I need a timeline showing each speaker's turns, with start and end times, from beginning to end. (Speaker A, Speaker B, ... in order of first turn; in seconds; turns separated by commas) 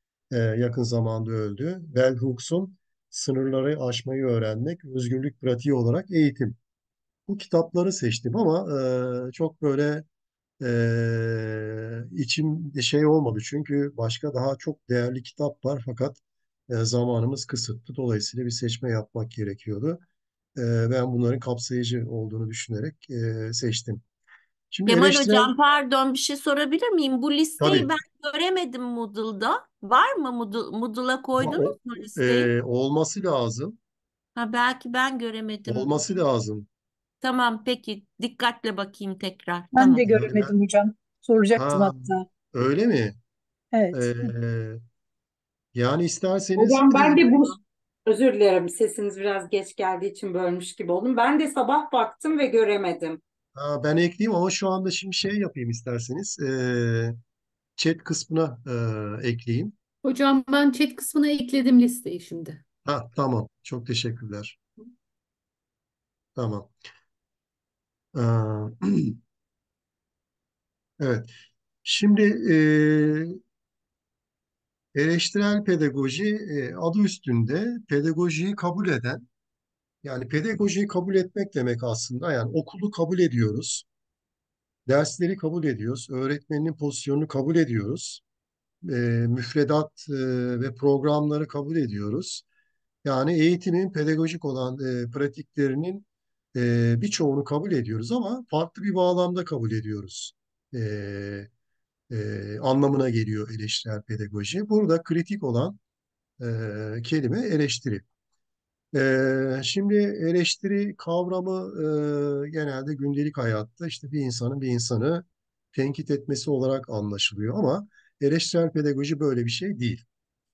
Speaker A: 0.3-6.6, Speaker A: 7.3-10.1, Speaker A: 10.6-16.2, Speaker A: 16.7-20.0, Speaker A: 20.6-24.0, Speaker A: 24.7-25.5, Speaker B: 24.9-32.5, Speaker A: 27.6-27.9, Speaker A: 31.4-33.8, Speaker B: 34.4-36.0, Speaker A: 35.7-36.7, Speaker B: 37.2-40.1, Speaker C: 39.8-42.3, Speaker A: 40.0-40.5, Speaker A: 41.6-43.2, Speaker C: 43.7-44.3, Speaker A: 43.9-44.8, Speaker A: 45.8-47.3, Speaker D: 46.6-47.5, Speaker D: 48.1-53.2, Speaker A: 53.5-57.2, Speaker A: 57.8-59.8, Speaker E: 60.0-62.6, Speaker A: 62.9-64.6, Speaker A: 66.4-66.7, Speaker A: 68.2-69.2, Speaker A: 71.0-71.3, Speaker A: 71.8-73.4, Speaker A: 75.0-79.2, Speaker A: 80.0-83.8, Speaker A: 84.9-88.2, Speaker A: 88.8-92.4, Speaker A: 93.0-101.5, Speaker A: 102.1-105.8, Speaker A: 106.4-108.0, Speaker A: 108.9-120.0